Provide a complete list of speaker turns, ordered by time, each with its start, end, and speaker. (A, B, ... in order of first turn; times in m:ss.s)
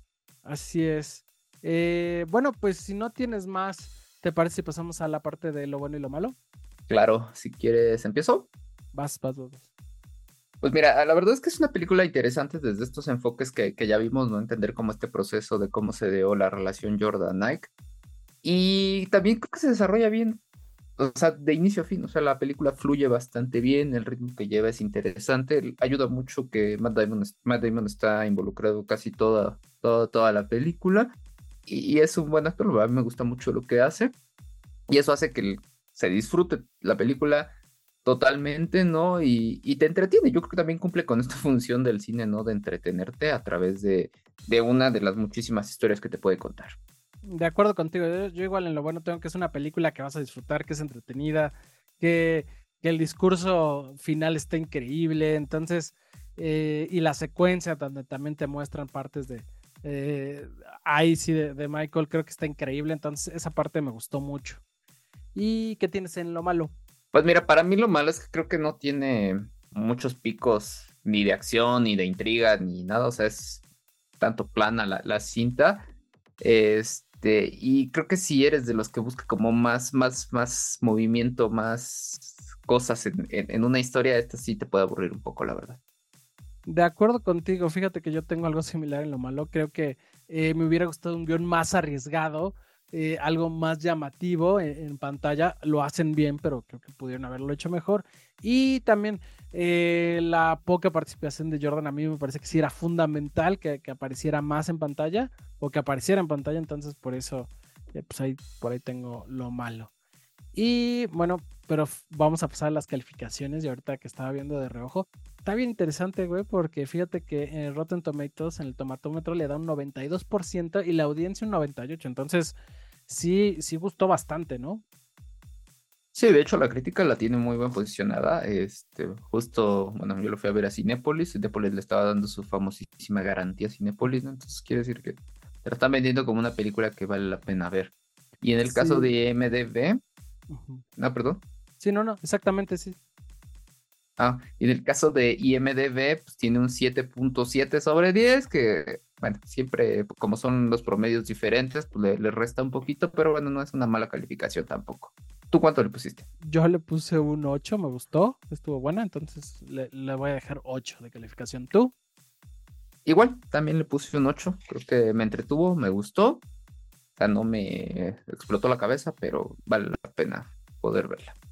0:00.4-0:06.3 A
0:06.9-0:08.5 B
0:08.9-0:09.6 A
0:10.6-0:17.7 B
0:18.4-0:20.4 B
0:21.0-0:31.1 B
0:31.6-0:34.1 B
0:34.9-0:37.5 B
0:38.0-0:46.7 B
0:47.2-1:04.6 A
1:05.3-1:06.7 A
1:07.1-1:13.6 B
1:14.2-1:15.8 B
1:16.4-1:25.8 B
1:26.6-1:49.9 A
1:50.5-2:02.6 A
2:03.1-2:04.8 A
2:06.1-2:20.0 B
2:18.6-2:19.1 A
2:20.5-2:20.8 A
2:21.0-2:21.4 B
2:21.8-2:23.0 A
2:24.2-2:36.2 B
2:36.4-2:41.9 A
2:43.0-2:46.4 B
2:47.2-2:51.3 B